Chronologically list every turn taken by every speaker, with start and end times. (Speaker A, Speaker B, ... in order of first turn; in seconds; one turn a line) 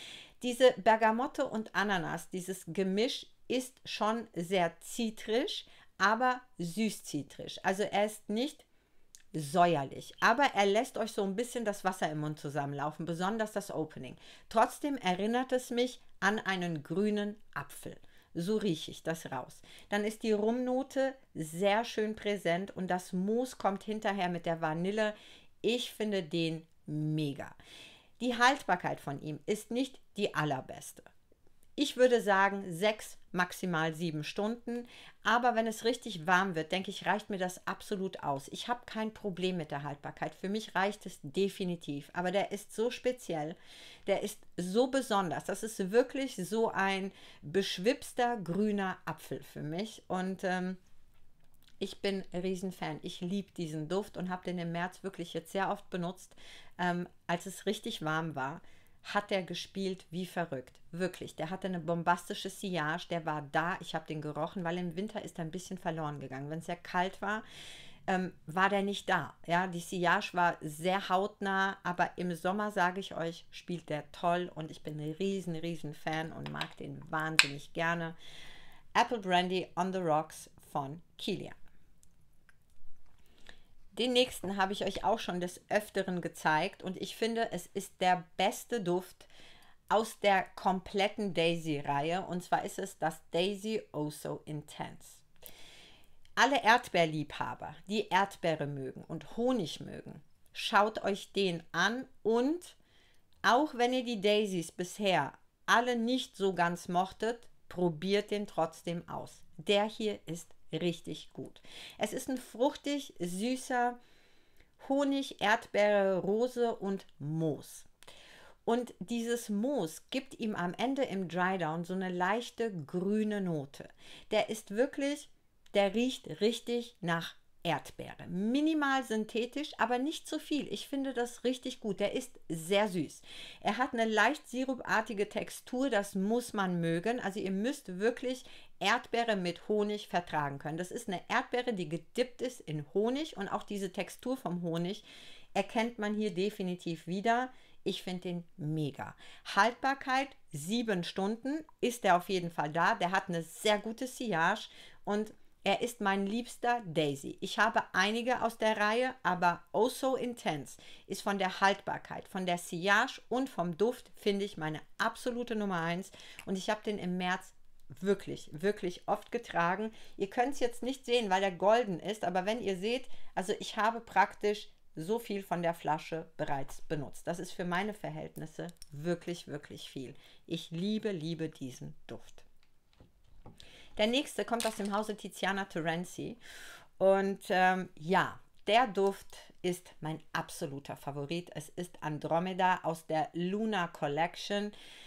Speaker A: 0.4-8.7
Speaker A: 9.3-27.6
Speaker A: 28.2-31.1
Speaker A: 31.8-50.8
Speaker A: 51.8-67.5
Speaker A: 68.1-78.2
Speaker A: 79.0-81.5
Speaker A: 83.9-89.3
Speaker A: 89.9-95.2
Speaker A: 96.4-102.8
Speaker A: 103.4-114.0
Speaker A: 114.8-117.9
Speaker A: 118.7-145.0
Speaker A: 145.6-182.5
Speaker A: 184.0-186.4
Speaker A: 187.0-194.7